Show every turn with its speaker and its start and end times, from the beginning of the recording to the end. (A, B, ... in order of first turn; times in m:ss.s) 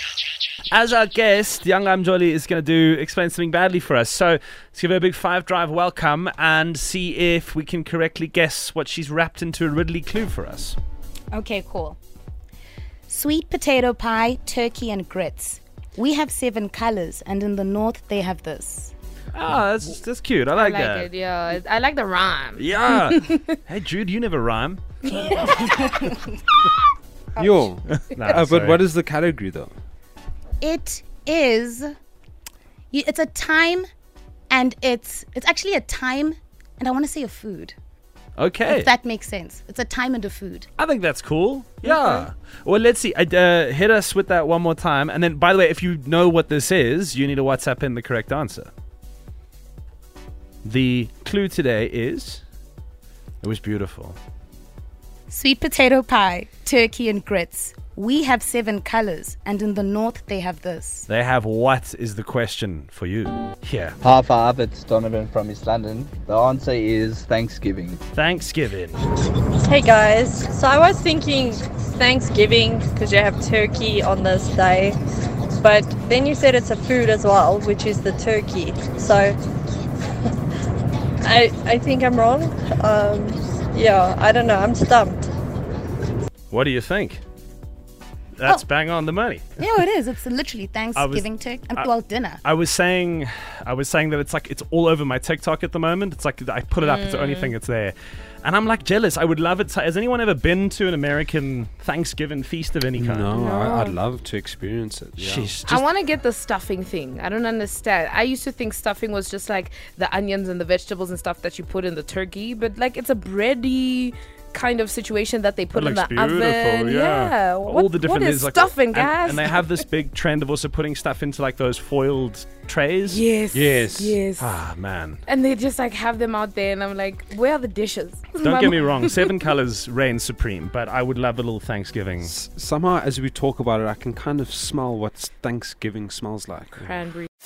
0:00.7-0:10.8 A
0:11.3-0:12.0 B
0:13.1-0:18.9 B
0:19.3-0:21.1 A
0:20.6-0:23.2 C
0:22.6-0:25.8 A
0:25.2-0:26.0 B
0:27.4-0:29.7 D
0:28.0-0:28.8 A
0:30.6-0:31.8 B
0:32.9-0:33.8 B
0:34.5-0:37.7 B
0:38.4-0:38.9 A
0:38.6-0:40.7 B
0:40.8-0:48.7 A
0:50.6-0:52.4 A
0:53.4-0:54.2 A
0:55.3-1:01.0 B
1:01.1-1:04.0 A
1:04.0-1:08.0 E
1:08.1-1:09.0 A
1:09.6-1:15.0 F
1:15.6-1:19.4 F
1:21.2-1:25.3 F
1:26.5-1:27.2 A
1:28.4-1:29.4 A
1:29.6-1:32.4 B
1:31.0-1:31.9 A
1:32.4-1:43.3 A
1:36.8-1:37.5 C
1:43.0-1:45.6 D
1:43.4-1:44.0 C
1:45.2-1:45.8 A
1:45.6-1:59.6 C
1:55.7-2:03.2 A
2:03.1-2:04.6 C
2:03.5-2:04.2 D
2:04.4-2:05.2 A
2:05.3-2:09.3 C
2:08.4-2:12.3 A
2:12.2-2:16.9 D
2:16.8-2:17.3 C